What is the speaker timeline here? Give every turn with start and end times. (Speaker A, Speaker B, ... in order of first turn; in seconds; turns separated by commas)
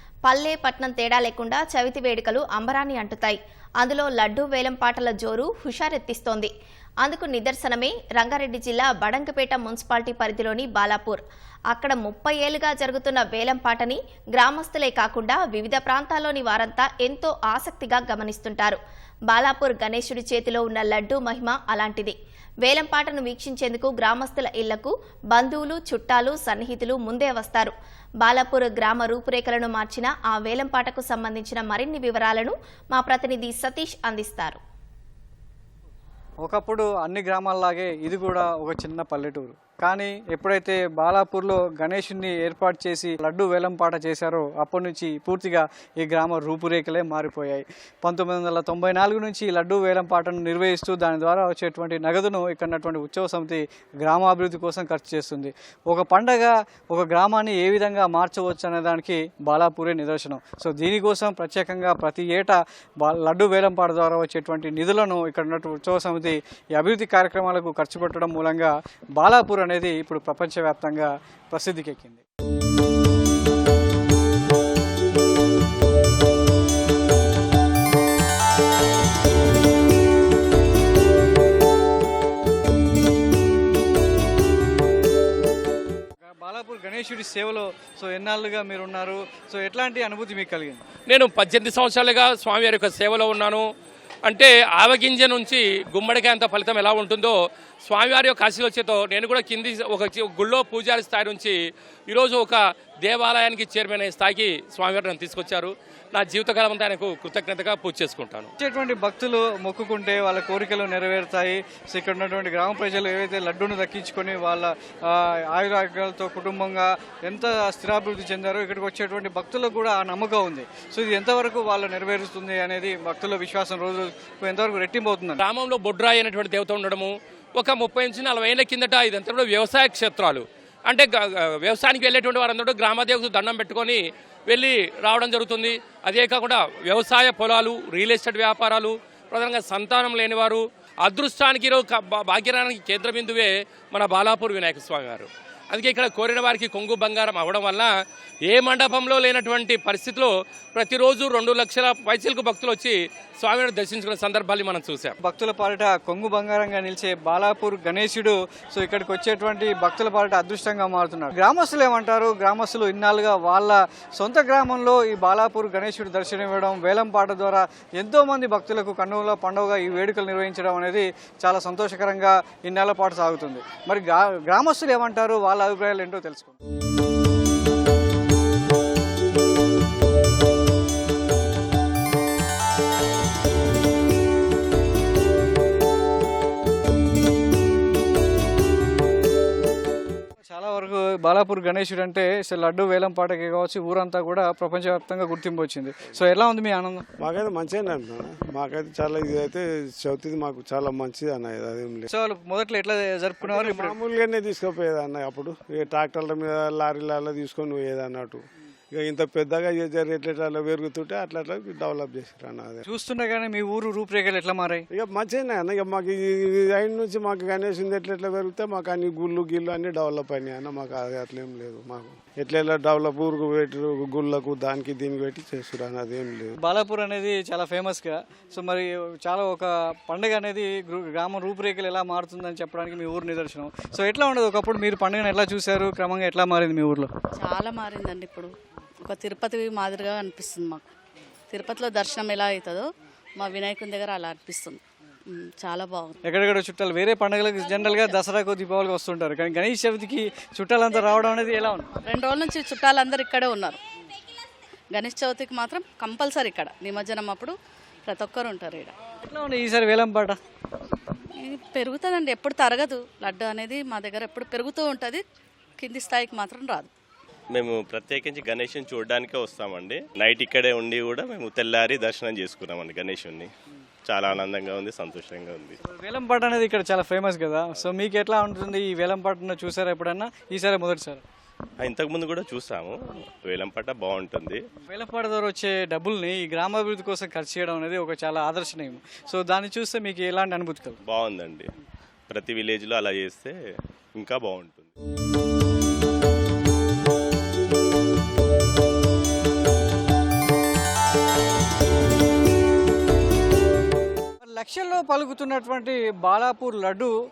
Speaker A: 0.3-6.5, Speaker A: 7.0-18.8, Speaker A: 19.3-34.6, Speaker B: 36.4-72.2, Speaker B: 86.2-90.8, Speaker C: 91.1-93.6, Speaker C: 94.3-101.6, Speaker C: 102.1-108.5, Speaker B: 108.6-125.4, Speaker C: 125.4-147.9, Speaker C: 148.5-155.1, Speaker B: 155.2-176.6, Speaker B: 190.5-197.1, Speaker D: 197.2-202.1, Speaker B: 202.1-204.0, Speaker D: 203.4-208.4, Speaker D: 208.9-212.9, Speaker B: 212.8-214.8, Speaker D: 214.9-226.6, Speaker B: 226.6-237.1, Speaker E: 237.4-238.5, Speaker E: 239.1-240.9, Speaker E: 241.5-242.9, Speaker E: 243.4-246.2, Speaker B: 246.3-251.9, Speaker E: 252.0-253.8, Speaker E: 254.9-257.6, Speaker E: 258.1-258.9, Speaker B: 259.3-260.4, Speaker E: 261.4-265.2, Speaker E: 265.8-266.9, Speaker F: 267.5-273.5, Speaker F: 274.1-275.8, Speaker B: 275.8-281.2, Speaker F: 281.8-284.6, Speaker B: 284.9-291.0, Speaker F: 291.1-291.7, Speaker F: 292.3-293.6, Speaker F: 294.1-294.9, Speaker B: 304.4-307.1